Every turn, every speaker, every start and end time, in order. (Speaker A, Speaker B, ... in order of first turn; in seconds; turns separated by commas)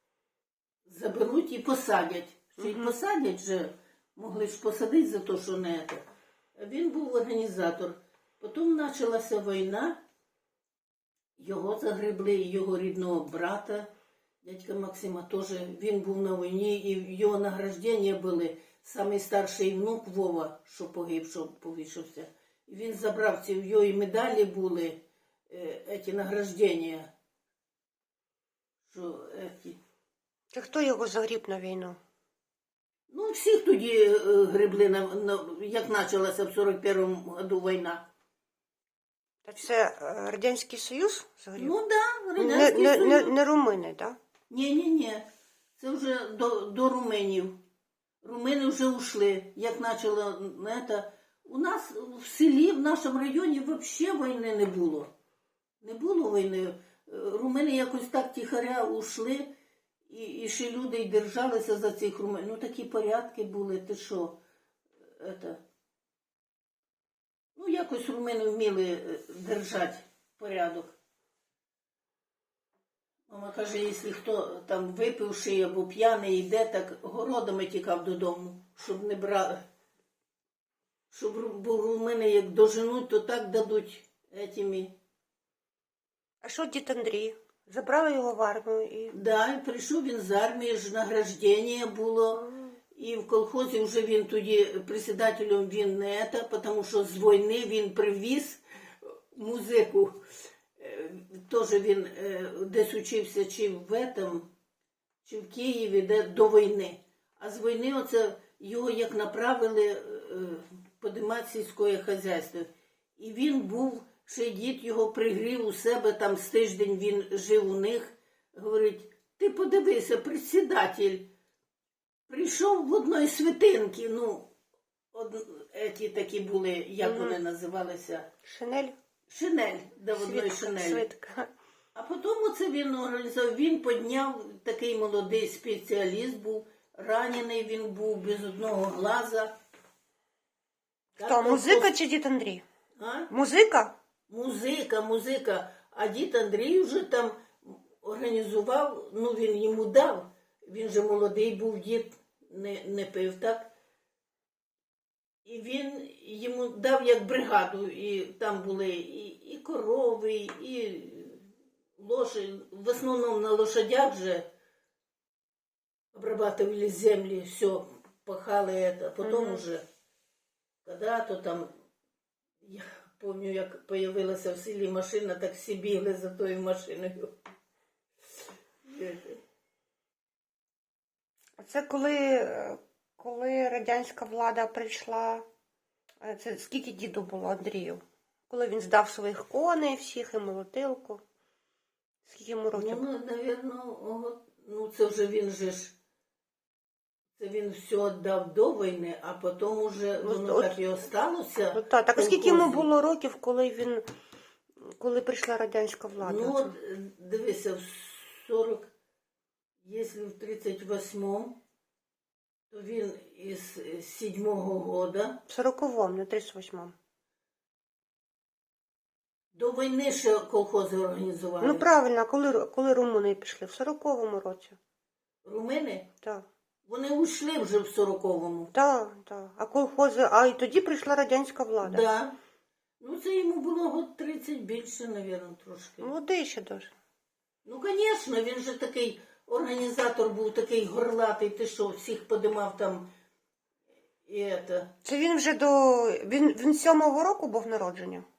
Speaker A: 0.9-6.0, Speaker B: 2.6-3.0, Speaker A: 6.6-10.0, Speaker A: 11.4-13.9, Speaker A: 14.4-27.1, Speaker A: 28.9-29.8, Speaker B: 30.5-32.0, Speaker A: 33.1-38.1, Speaker B: 39.5-41.8, Speaker A: 41.6-43.3, Speaker B: 42.4-44.2, Speaker A: 44.5-45.2, Speaker A: 45.8-47.6, Speaker A: 48.2-55.1, Speaker A: 55.8-59.5, Speaker A: 60.1-64.4, Speaker A: 65.2-65.6, Speaker A: 67.6-71.0, Speaker A: 73.3-79.6, Speaker A: 81.1-85.0, Speaker B: 86.4-89.2, Speaker A: 89.1-100.2, Speaker A: 100.8-104.5, Speaker A: 105.2-121.3, Speaker A: 122.3-124.5, Speaker A: 125.1-128.3, Speaker B: 127.0-127.4, Speaker B: 128.4-128.9, Speaker A: 129.3-131.1, Speaker B: 130.1-131.5, Speaker A: 132.0-139.6, Speaker A: 141.2-141.9, Speaker B: 141.2-142.7, Speaker A: 143.0-143.3, Speaker B: 143.3-143.9, Speaker A: 144.3-153.7, Speaker A: 155.4-161.4, Speaker A: 162.0-164.5, Speaker A: 166.1-169.8, Speaker B: 169.2-169.6, Speaker A: 170.8-171.7, Speaker A: 172.6-177.3, Speaker A: 178.8-179.4, Speaker B: 181.6-185.4, Speaker B: 186.2-191.2, Speaker B: 192.3-193.0, Speaker A: 192.7-195.9, Speaker A: 197.4-202.9, Speaker B: 200.2-200.8, Speaker B: 201.7-204.1, Speaker B: 204.8-206.8, Speaker A: 206.2-208.9, Speaker A: 209.8-211.6, Speaker A: 212.7-215.4, Speaker B: 215.5-216.9, Speaker A: 219.5-221.9, Speaker B: 221.6-224.8, Speaker A: 225.4-226.1, Speaker A: 226.9-228.7, Speaker B: 228.7-232.1, Speaker A: 231.8-232.4, Speaker A: 233.0-236.1, Speaker B: 236.0-236.9, Speaker A: 237.7-243.1, Speaker A: 244.3-244.9, Speaker B: 245.0-248.2